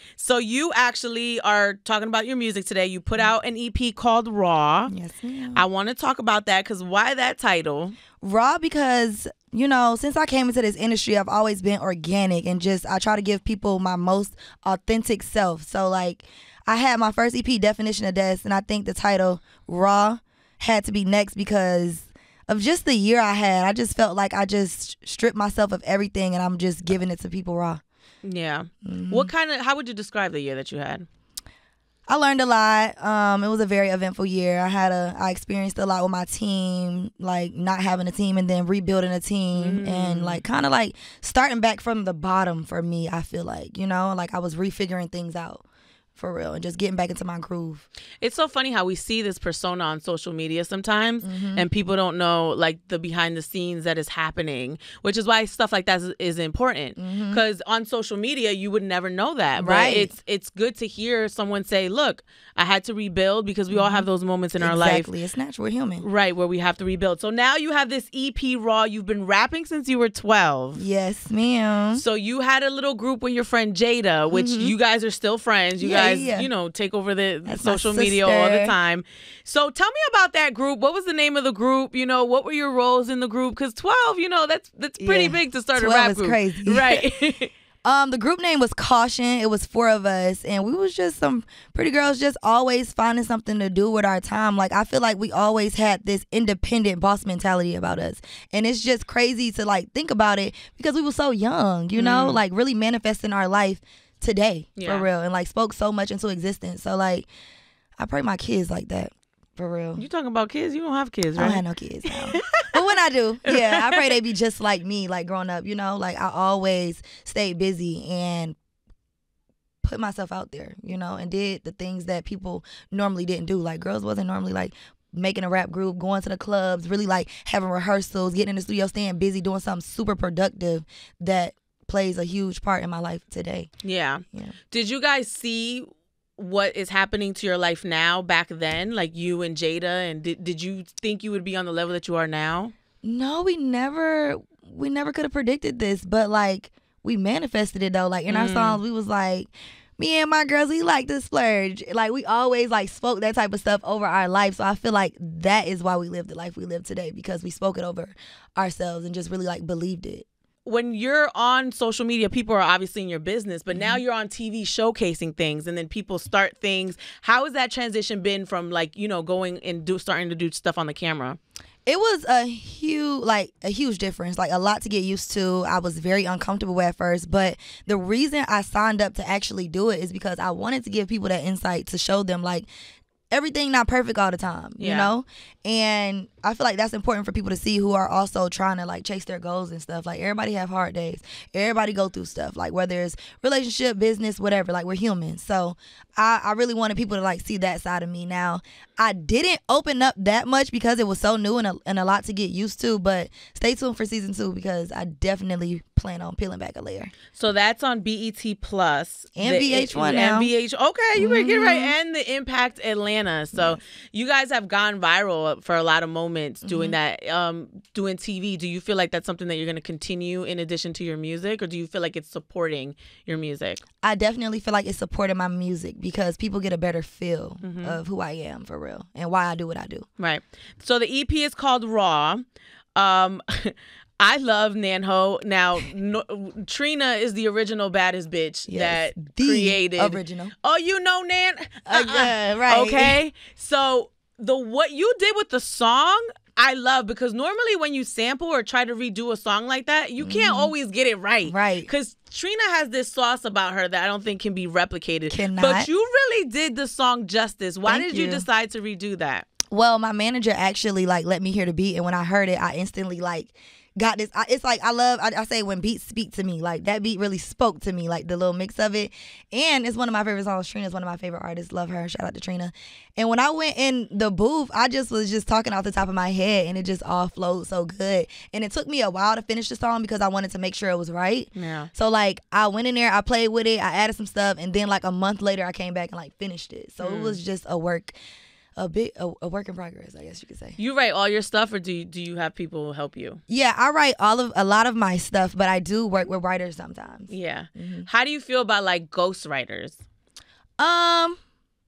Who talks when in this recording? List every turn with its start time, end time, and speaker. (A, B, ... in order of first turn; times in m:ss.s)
0:00.2-0:04.9 A
0:04.9-0:05.6 B
0:05.5-0:08.0 A
0:08.2-0:27.8 B
0:28.2-0:31.1 A
0:28.8-0:29.3 B
0:32.1-0:45.6 B
0:39.5-0:40.4 A
0:46.2-0:47.9 B
0:48.2-1:05.1 A
0:51.2-0:51.7 B
0:57.0-0:57.4 B
0:59.6-1:00.1 B
1:03.7-1:04.1 B
1:04.6-1:06.0 B
1:06.0-1:10.8 A
1:10.8-1:12.0 B
1:11.9-1:27.5 A
1:14.3-1:14.8 B
1:15.8-1:16.5 B
1:17.5-1:18.7 B
1:25.0-1:27.1 B
1:27.8-1:47.3 B
1:42.0-1:42.4 A
1:44.8-1:45.1 A
1:48.0-1:50.0 B
1:50.0-1:52.7 A
1:51.4-1:58.6 B
1:53.5-1:54.1 A
1:59.8-2:13.7 B
2:13.8-2:22.7 A
2:23.0-2:40.3 B
2:28.3-2:28.8 A
2:40.7-2:51.4 A
2:43.7-2:44.0 B
2:51.9-3:02.7 B
3:03.3-3:27.1 B
3:04.8-3:05.1 A
3:27.3-3:43.8 A
3:29.4-3:30.5 B
3:31.2-3:31.9 B
3:33.5-3:33.8 B
3:36.6-3:37.0 B
3:44.0-3:50.1 B
3:47.6-3:48.0 A
3:50.2-3:52.4 A
3:53.0-4:19.5 A
3:58.7-4:00.5 B
4:01.9-4:03.2 B
4:10.2-4:10.7 B
4:11.4-4:11.9 B
4:15.3-4:15.9 B
4:17.9-4:18.5 B
4:19.7-4:48.2 B
4:41.5-4:41.9 A
4:47.0-4:47.4 A
4:48.8-4:50.8 B
4:50.8-4:53.4 A
4:53.5-4:58.1 B
4:57.3-5:00.0 A
5:00.8-5:01.4 B